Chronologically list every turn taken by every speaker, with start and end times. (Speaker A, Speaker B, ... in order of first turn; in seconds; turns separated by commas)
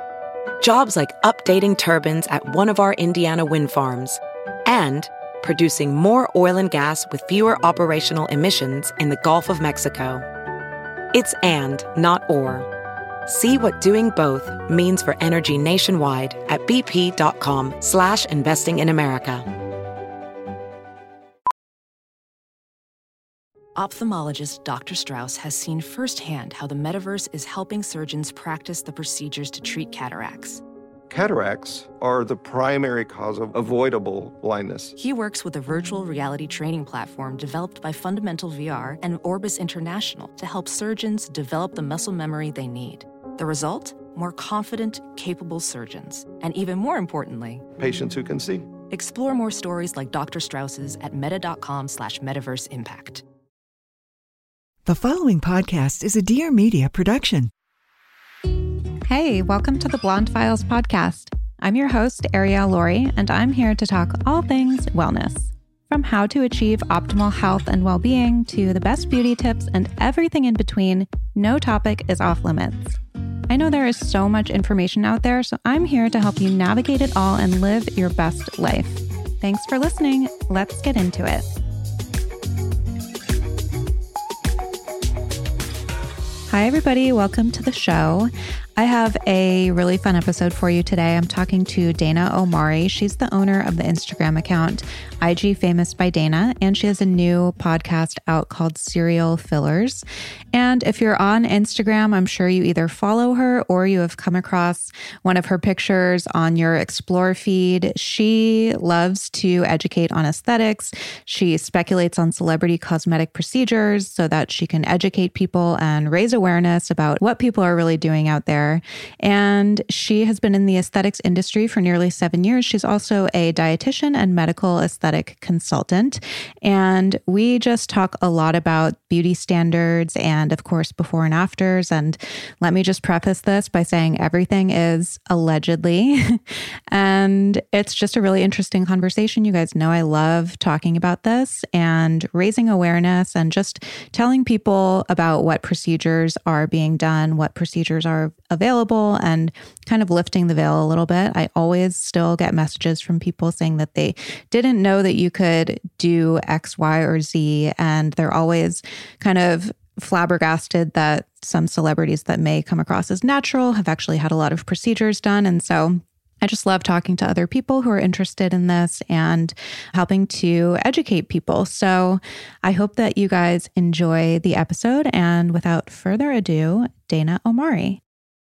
Speaker A: 0.6-10.2, Speaker A: 11.1-12.7, Speaker A: 13.2-19.4, Speaker B: 23.8-30.6, Speaker C: 31.1-34.9, Speaker B: 35.0-47.6, Speaker C: 47.8-48.7, Speaker B: 48.9-53.2, Speaker D: 54.8-57.5, Speaker E: 59.0-73.0, Speaker E: 73.5-81.5, Speaker E: 86.5-178.0